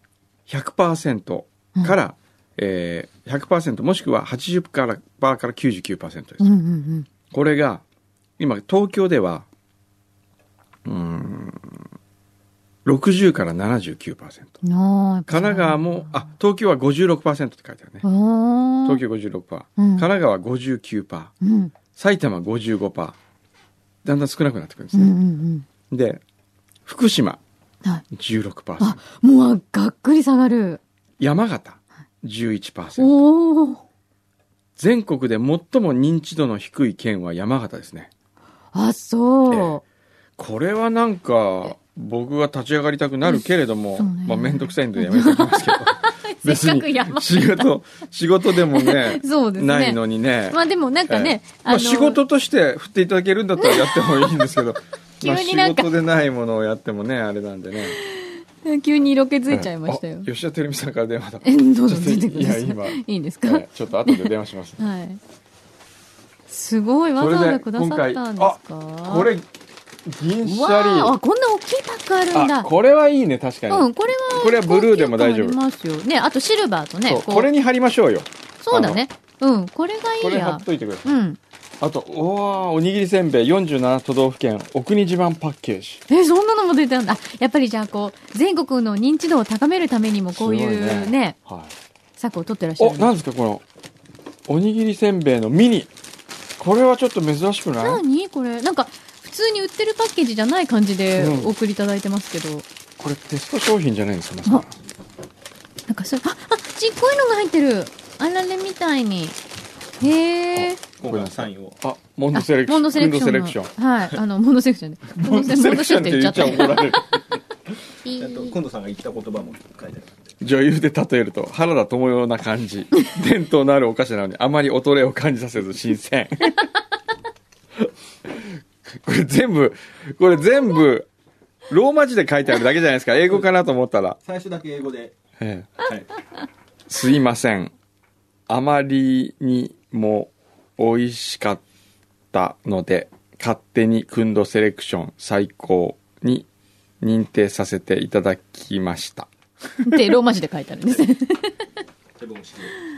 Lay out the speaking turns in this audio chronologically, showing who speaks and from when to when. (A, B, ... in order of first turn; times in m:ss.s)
0:00.5-0:06.5 A
0:06.4-0:07.1 B
0:07.3-0:07.8 A
0:08.4-0:09.5 A
0:10.8-0:11.8 A
0:12.8-0:14.5 A
0:14.6-0:16.1 B
0:15.3-0:18.0 A
0:18.0-0:19.0 B
0:18.8-0:21.3 A
0:19.8-0:20.1 B
0:21.4-0:21.7 B
0:21.9-0:23.2 A
0:24.0-0:25.1 A
0:24.9-0:25.7 B
0:25.9-0:26.2 A
0:26.9-0:27.4 A
0:28.1-0:29.0 A
0:28.8-0:30.8 B
0:31.2-0:33.1 A
0:33.0-0:33.8 B
0:34.8-0:38.1 A
0:38.7-0:39.8 B
0:39.5-0:39.8 A
0:40.4-0:58.0 A
0:44.0-0:47.8 B
0:48.5-0:52.2 B
0:53.6-0:54.6 B
0:55.2-0:55.9 B
0:57.9-1:00.3 B
0:59.5-1:04.8 A
1:01.4-1:05.2 B
1:06.5-1:09.3 B
1:07.2-1:09.5 A
1:10.0-1:11.2 A
1:10.4-1:12.7 B
1:12.3-1:15.6 A
1:13.7-1:17.5 B
1:17.1-1:19.0 A
1:18.6-1:21.4 B
1:20.2-1:21.1 A
1:21.8-1:26.0 A
1:26.1-1:31.4 B
1:30.3-1:31.8 A
1:32.2-1:33.1 B
1:32.8-1:33.6 A
1:34.5-1:35.9 A
1:36.6-1:38.0 A
1:37.8-1:42.7 B
1:41.2-1:41.5 A
1:43.0-1:44.7 A
1:45.9-1:49.4 B
1:50.0-1:50.8 B
1:50.6-1:53.7 A
1:51.0-1:51.8 C
1:52.3-1:57.0 B
1:55.1-1:57.2 A
1:58.0-1:58.6 B
1:58.2-2:00.3 C
2:00.4-2:06.7 A
2:07.8-2:11.1 A
2:11.7-2:14.2 A
2:14.2-2:15.2 C
2:15.4-2:15.8 A
2:15.8-2:16.1 C
2:16.9-2:17.7 A
2:18.5-2:21.6 A
2:22.3-2:26.5 A
2:27.0-2:29.3 A
2:29.8-2:31.6 B
2:32.2-2:32.7 C